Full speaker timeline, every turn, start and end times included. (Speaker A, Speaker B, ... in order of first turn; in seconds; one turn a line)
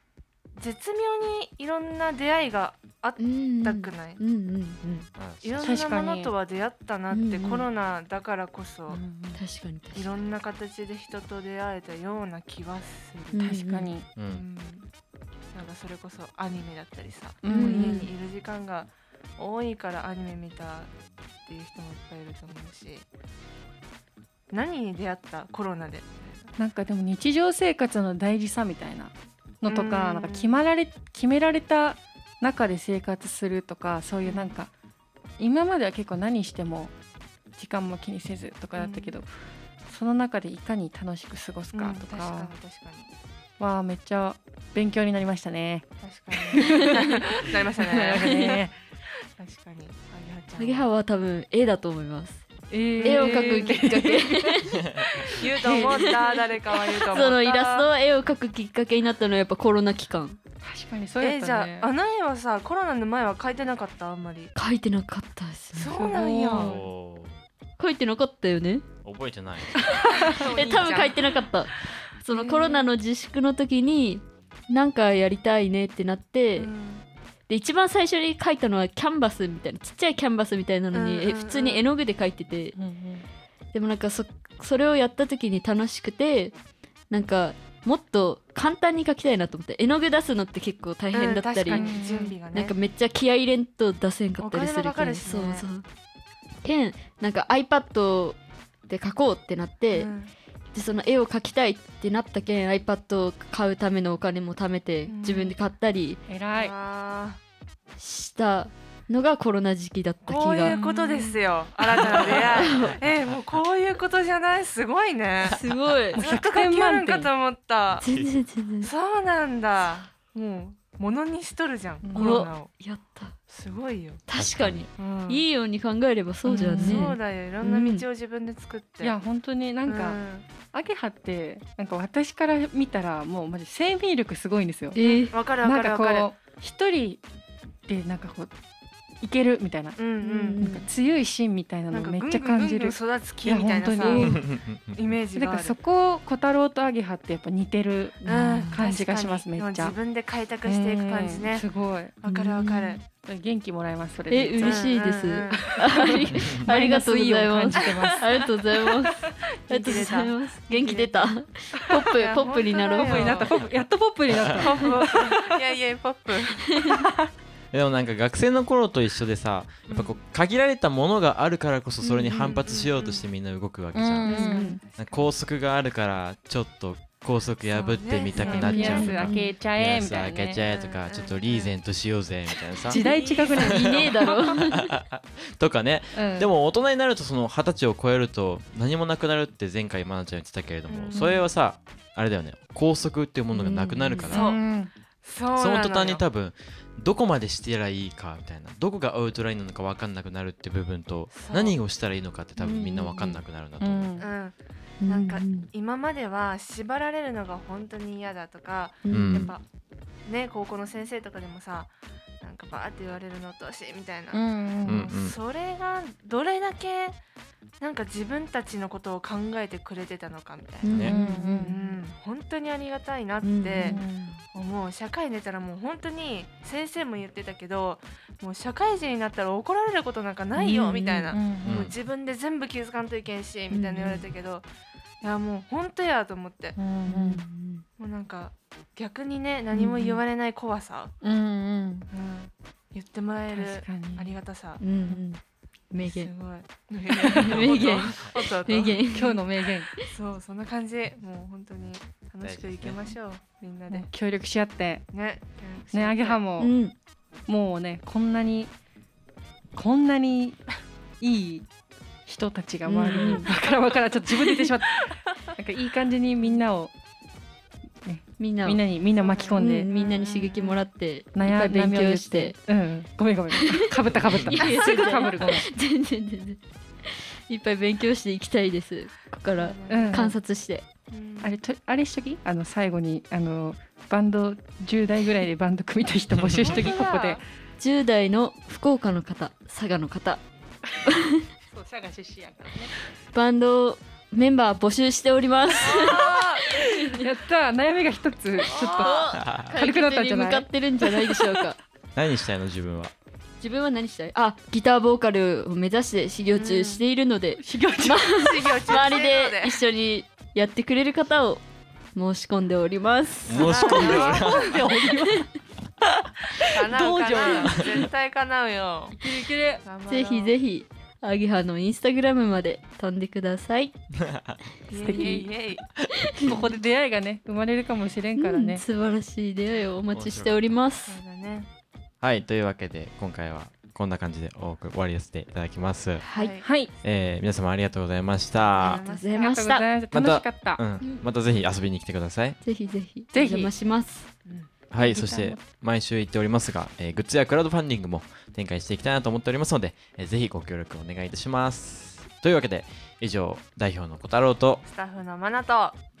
Speaker A: 0.5-4.2
Speaker B: 3.2-5.1
Speaker C: 5.2-5.7
Speaker A: 5.4-9.0
Speaker D: 5.6-6.3
Speaker B: 7.1-7.7
Speaker D: 8.9-9.4
Speaker B: 9.3-10.1
Speaker A: 9.9-13.5
Speaker B: 13.3-13.9
Speaker D: 13.4-14.1
Speaker C: 14.2-14.4
Speaker A: 14.2-14.9
Speaker A: 15.5-20.9
Speaker D: 17.4-18.0
Speaker B: 17.5-18.1
Speaker A: 21.4-23.1
Speaker A: 24.5-26.5
Speaker D: 26.6-34.7
Speaker A: 29.7-30.6
Speaker A: 34.2-34.6
Speaker D: 35.4-36.9
Speaker D: 37.5-39.3
Speaker A: 38.8-39.2
Speaker D: 39.8-42.5
Speaker A: 41.7-43.1
Speaker D: 43.6-48.7
Speaker A: 46.0-48.7
Speaker B: 48.2-48.6
Speaker A: 49.4-50.9
Speaker B: 50.6-52.5
Speaker D: 52.7-56.3
Speaker A: 53.0-53.8
Speaker B: 53.0-55.3
Speaker A: 55.3-57.9
Speaker B: 57.0-60.4
Speaker D: 60.6-61.9
Speaker A: 61.2-64.5
Speaker B: 64.5-66.1
Speaker A: 65.7-66.8
Speaker D: 65.9-66.8
Speaker C: 66.5-67.4
Speaker B: 67.8-68.8
Speaker C: 69.0-69.8
Speaker B: 69.8-76.7
Speaker A: 69.9-71.4
Speaker D: 70.2-70.9
Speaker A: 72.3-72.9
Speaker A: 76.5-77.0
Speaker B: 77.5-82.7
Speaker A: 80.9-81.8
Speaker D: 82.7-83.2
Speaker B: 83.7-86.5
Speaker B: 87.1-92.0
Speaker A: 91.1-92.7
Speaker D: 91.7-92.3
Speaker B: 92.5-95.8
Speaker A: 94.4-95.7
Speaker B: 96.6-98.4
Speaker B: 98.9-100.1
Speaker A: 99.9-100.3
Speaker B: 100.7-106.2
Speaker A: 105.1-105.5
Speaker D: 106.3-106.7
Speaker A: 106.5-107.4
Speaker B: 108.0-111.4
Speaker A: 110.2-115.6
Speaker D: 110.6-111.1
Speaker C: 112.0-113.6
Speaker B: 112.1-112.9
Speaker B: 115.5-116.2
Speaker D: 116.1-117.3
Speaker A: 116.1-118.1
Speaker B: 118.0-118.9
Speaker C: 118.1-118.3
Speaker A: 118.8-122.7
Speaker D: 122.0-122.4
Speaker B: 122.1-123.3
Speaker A: 123.5-124.2
Speaker B: 124.3-128.0
Speaker C: 124.4-124.9
Speaker A: 125.0-125.5
Speaker A: 126.5-129.2
Speaker D: 126.6-127.1
Speaker D: 129.0-130.2
Speaker A: 129.8-130.4
Speaker D: 130.7-135.0
Speaker B: 134.9-135.3
Speaker A: 134.9-136.3
Speaker D: 135.6-137.2
Speaker D: 137.9-138.5
Speaker D: 139.2-140.0
Speaker A: 140.0-140.6
Speaker B: 140.2-140.9
Speaker D: 140.6-144.4
Speaker A: 141.9-144.3
Speaker C: 144.1-145.0
Speaker A: 144.9-145.8
Speaker D: 145.3-149.9
Speaker B: 148.2-148.8
Speaker A: 148.2-151.6
Speaker D: 150.6-152.1
Speaker A: 152.2-153.0
Speaker B: 152.2-153.0
Speaker D: 153.2-154.9
Speaker B: 154.3-163.3
Speaker A: 154.6-155.8
Speaker D: 155.5-158.2
Speaker C: 156.3-156.7
Speaker A: 157.7-163.6
Speaker D: 162.9-165.5
Speaker C: 164.3-164.7
Speaker A: 164.5-167.1
Speaker C: 167.7-183.0
Speaker A: 169.9-170.2
Speaker B: 172.0-172.5
Speaker A: 172.3-173.3
Speaker D: 173.9-174.8
Speaker B: 174.2-174.8
Speaker A: 174.5-175.3
Speaker A: 177.7-179.3
Speaker D: 178.4-180.6
Speaker B: 178.6-179.5
Speaker A: 180.7-181.7
Speaker D: 182.8-184.2
Speaker B: 183.0-184.9
Speaker C: 183.6-194.4
Speaker D: 186.1-186.5
Speaker A: 190.9-191.5
Speaker B: 193.5-194.4
Speaker A: 194.2-194.6
Speaker D: 194.3-194.9
Speaker A: 195.2-196.2
Speaker C: 195.5-204.2
Speaker A: 201.3-201.8
Speaker B: 202.6-203.4
Speaker D: 203.8-204.3
Speaker A: 204.2-204.5
Speaker D: 205.0-205.3
Speaker A: 205.1-209.6
Speaker B: 205.3-205.7
Speaker B: 209.0-209.5
Speaker C: 209.1-209.5
Speaker A: 210.2-214.5
Speaker D: 214.3-215.1
Speaker C: 214.8-215.3
Speaker A: 215.1-217.2
Speaker A: 217.8-234.7
Speaker B: 220.8-221.7
Speaker D: 221.0-221.8
Speaker B: 223.4-224.0
Speaker D: 223.8-224.4
Speaker B: 230.6-231.4
Speaker D: 231.3-231.8
Speaker C: 231.6-231.9
Speaker B: 233.7-234.2
Speaker A: 235.2-236.8
Speaker D: 236.8-237.4
Speaker B: 237.1-237.8
Speaker A: 238.0-241.1
Speaker D: 239.8-240.2
Speaker D: 241.2-242.1
Speaker A: 242.1-244.8
Speaker D: 243.5-244.3
Speaker B: 244.8-245.4
Speaker B: 245.9-246.3
Speaker A: 246.0-249.2
Speaker B: 247.1-249.4
Speaker D: 247.6-248.1
Speaker D: 249.1-249.9
Speaker A: 250.1-254.1
Speaker C: 252.4-253.1
Speaker D: 253.9-255.0
Speaker A: 255.1-256.4
Speaker D: 255.9-256.7
Speaker B: 256.6-256.9
Speaker D: 257.5-258.7
Speaker D: 259.7-260.6
Speaker D: 261.2-261.7
Speaker D: 262.2-266.9
Speaker B: 262.8-263.5
Speaker A: 263.2-263.7
Speaker D: 268.0-269.9
Speaker B: 268.4-268.8
Speaker A: 269.1-270.8
Speaker B: 269.5-272.6
Speaker D: 271.3-275.7
Speaker B: 273.5-273.8
Speaker B: 274.5-280.9
Speaker A: 274.7-275.0
Speaker A: 279.5-280.3
Speaker D: 279.9-280.3
Speaker A: 281.1-281.6
Speaker D: 281.4-287.4
Speaker A: 286.7-287.4
Speaker B: 287.8-290.4
Speaker B: 291.1-291.4
Speaker D: 291.7-292.9
Speaker B: 293.3-296.9
Speaker A: 295.8-296.7
Speaker D: 296.6-301.6
Speaker B: 298.6-301.8
Speaker A: 298.6-299.2
Speaker C: 299.3-299.7
Speaker C: 302.1-303.1
Speaker B: 303.6-311.6
Speaker A: 306.5-307.0
Speaker D: 307.6-308.3
Speaker A: 308.3-309.8
Speaker B: 312.1-314.3
Speaker C: 313.4-314.8
Speaker A: 313.6-314.7
Speaker D: 313.7-315.5
Speaker D: 316.5-318.0
Speaker A: 316.6-319.2
Speaker D: 319.2-319.8
Speaker A: 319.8-320.5
Speaker B: 320.1-323.9
Speaker C: 324.2-324.5
Speaker A: 324.9-325.8
Speaker B: 324.9-325.3
Speaker D: 325.0-325.5
Speaker B: 326.1-326.6
Speaker D: 326.4-328.8
Speaker B: 328.4-331.2
Speaker C: 330.1-330.7
Speaker A: 331.1-331.7
Speaker C: 332.2-336.2
Speaker B: 336.2-336.6
Speaker A: 336.3-336.7
Speaker D: 336.6-336.9
Speaker C: 337.0-339.0
Speaker A: 338.7-339.5
Speaker B: 338.8-339.9
Speaker D: 339.4-340.8
Speaker C: 340.1-342.6
Speaker B: 342.6-344.3
Speaker D: 343.3-343.7
Speaker C: 344.9-354.8
Speaker D: 345.0-345.7
Speaker A: 354.8-356.0